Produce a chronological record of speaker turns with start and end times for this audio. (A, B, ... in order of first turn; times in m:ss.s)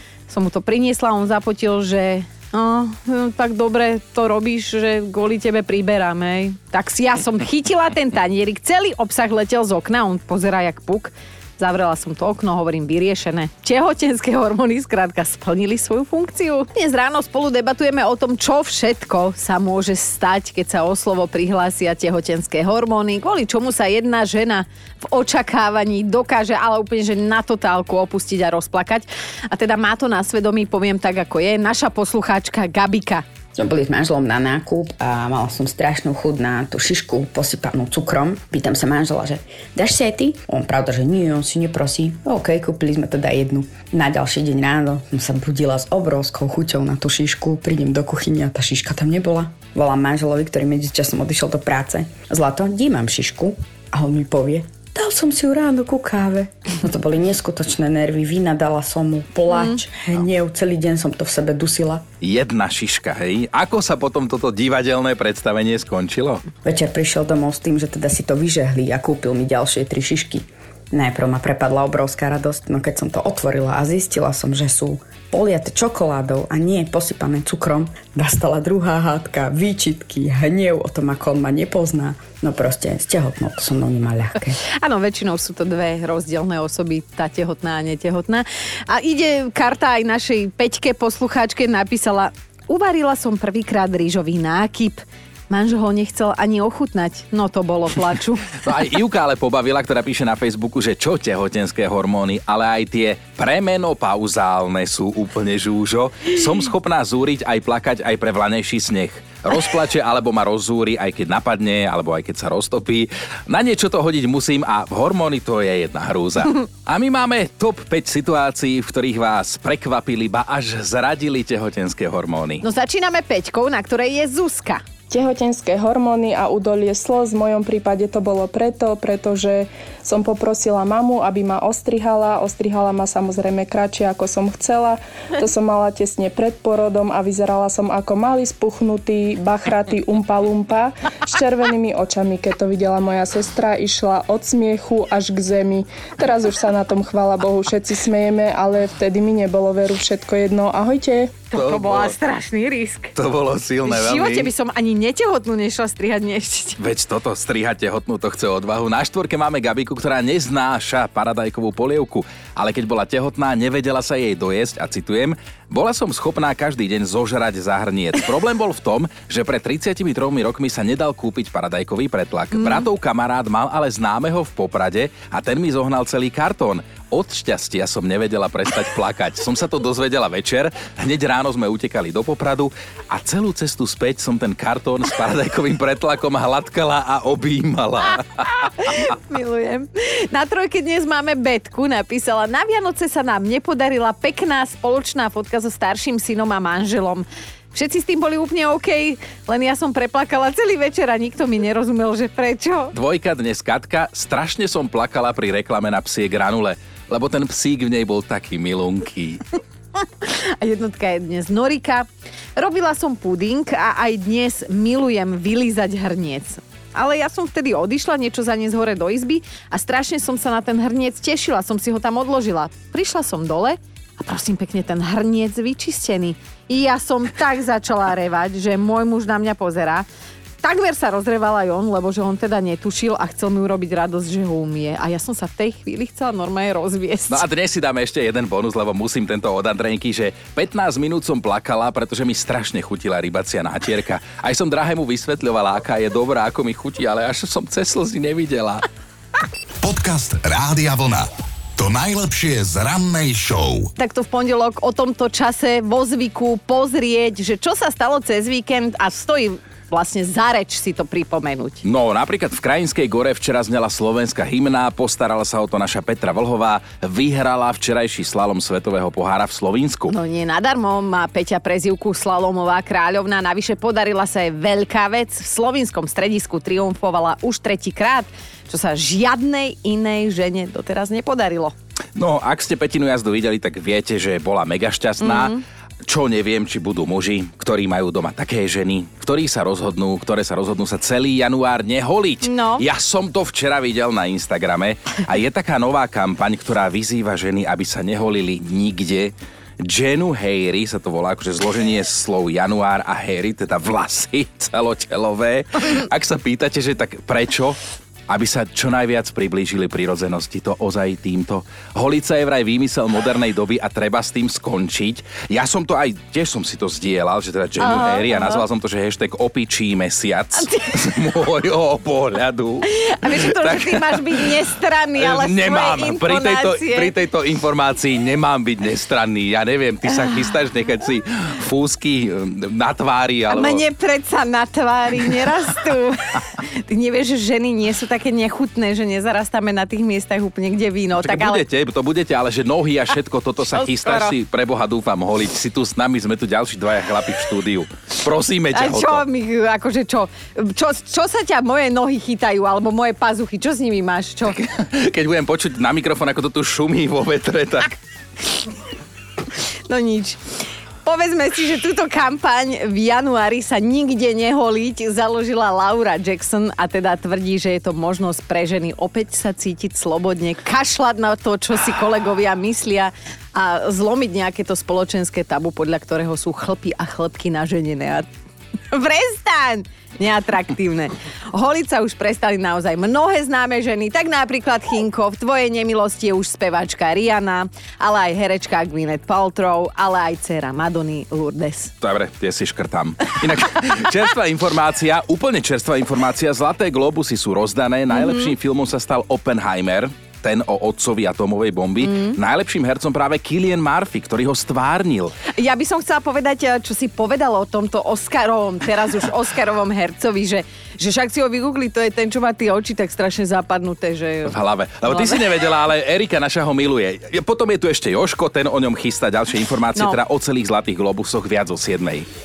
0:00.3-0:33.2 A
0:33.6-1:02.0 B
0:59.5-0:59.8 A
1:02.2-1:06.4 C
1:06.6-1:24.6 B
1:24.6-1:38.5 A
1:38.6-2:02.6 C
2:02.6-2:04.8 A
2:05.1-2:31.4 D
2:31.5-2:33.1 A
2:31.6-2:32.1 C
2:33.2-2:34.5 C
2:33.9-2:36.8 A
2:36.8-3:08.9 C
2:52.6-2:52.8 A
3:08.7-3:22.9 A
3:22.9-3:29.4 C
3:30.2-3:50.1 A
3:50.6-3:57.4 A
3:57.3-4:08.9 C
4:09.8-4:13.9 E
4:14.0-4:21.8 A
4:21.8-4:30.1 C
4:30.1-4:41.7 A
4:42.2-4:45.6 C
4:45.2-4:45.6 A
4:46.1-5:07.8 C
4:52.4-4:52.8 A
5:08.3-5:24.6 C
5:17.8-5:18.6 A
5:20.6-5:21.1 A
5:22.8-5:27.1 A
5:25.2-5:33.8 C
5:33.5-5:41.6 A
5:41.2-5:49.2 C
5:43.7-5:44.3 A
5:48.7-5:54.6 A
5:54.5-5:57.9 C
5:59.9-6:00.4 A
6:01.0-6:18.3 A
6:18.9-6:31.9 A
6:32.0-6:45.4 C
6:38.1-6:38.5 A
6:42.0-6:42.4 A
6:45.5-6:54.5 A
6:54.4-7:02.3 C
6:55.0-6:55.4 A